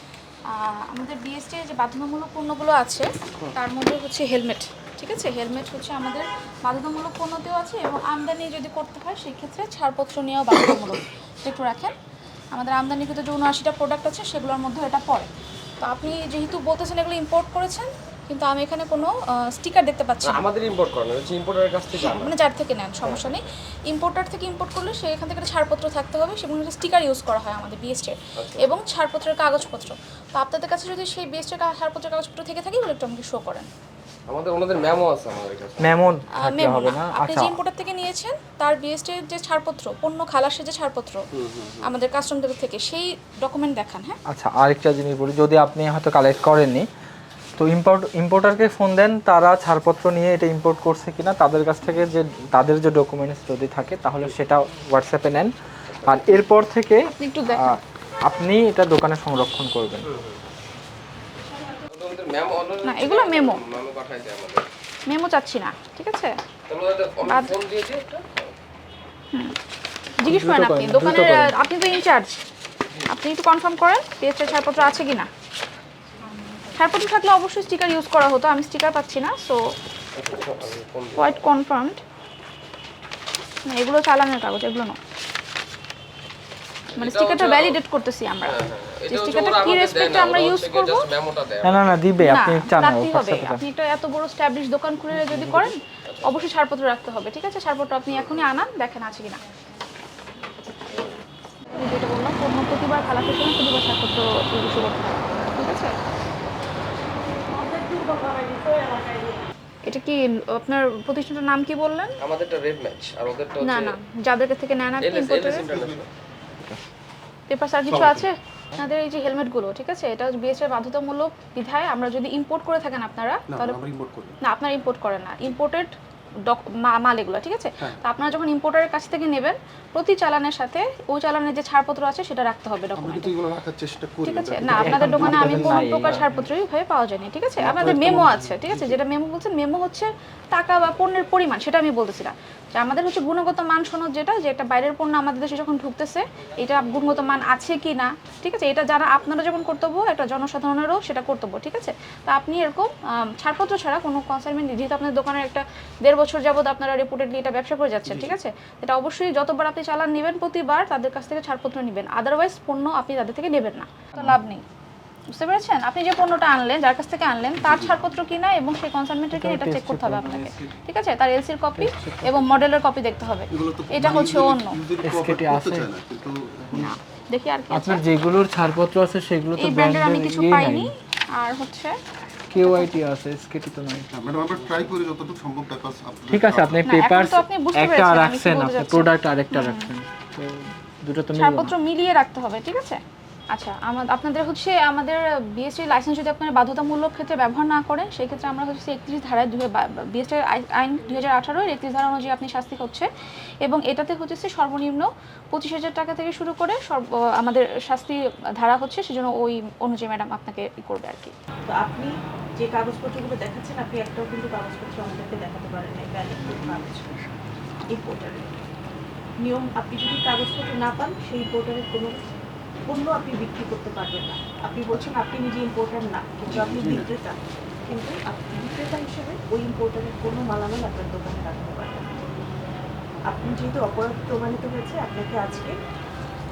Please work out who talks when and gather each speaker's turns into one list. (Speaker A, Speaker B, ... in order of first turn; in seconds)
Speaker A: 0.5-11.9, 12.5-15.3, 15.8-20.4, 22.0-33.7, 36.4-41.2, 41.8-44.2, 57.2-57.8, 62.8-63.6, 65.1-66.4, 67.2-67.5, 70.2-72.4, 73.1-75.3, 76.8-79.6, 81.2-82.0, 83.7-85.0, 87.0-91.1, 92.2-99.4, 101.7-106.0, 109.9-112.2, 113.6-115.7, 117.5-123.8, 124.4-126.0, 126.5-133.3, 134.2-164.6, 165.3-174.8, 176.7-178.0, 179.6-182.0, 182.5-183.0, 186.9-189.9, 191.3-193.0, 193.5-203.1, 203.6-211.3
Speaker B: 20.2-22.3, 23.0-23.4, 28.4-28.7, 34.3-36.0, 41.4-41.9, 55.9-56.4, 60.1-60.4, 61.8-64.7, 66.7-68.5, 80.2-81.4, 86.9-87.8, 88.5-92.0, 96.0-96.4, 98.1-98.4, 112.2-114.0, 115.0-116.1
Speaker C: 35.8-37.6, 44.3-46.9, 47.6-55.5, 56.0-60.1, 70.2-71.5, 91.6-93.6, 95.1-95.7, 134.7-136.5, 169.3-170.6, 171.8-172.5, 175.0-175.9, 177.7-180.9, 182.5-184.1, 186.3-191.8
Speaker D: 107.3-109.5, 211.7-217.1, 217.9-218.5, 219.4-222.2, 222.9-232.3, 233.3-235.8
Speaker E: 115.7-116.0, 117.9-118.3, 123.5-124.4, 132.9-136.2, 137.6-139.0, 158.1-158.3, 167.6-168.0, 173.5-176.9, 184.1-186.9, 226.5-227.1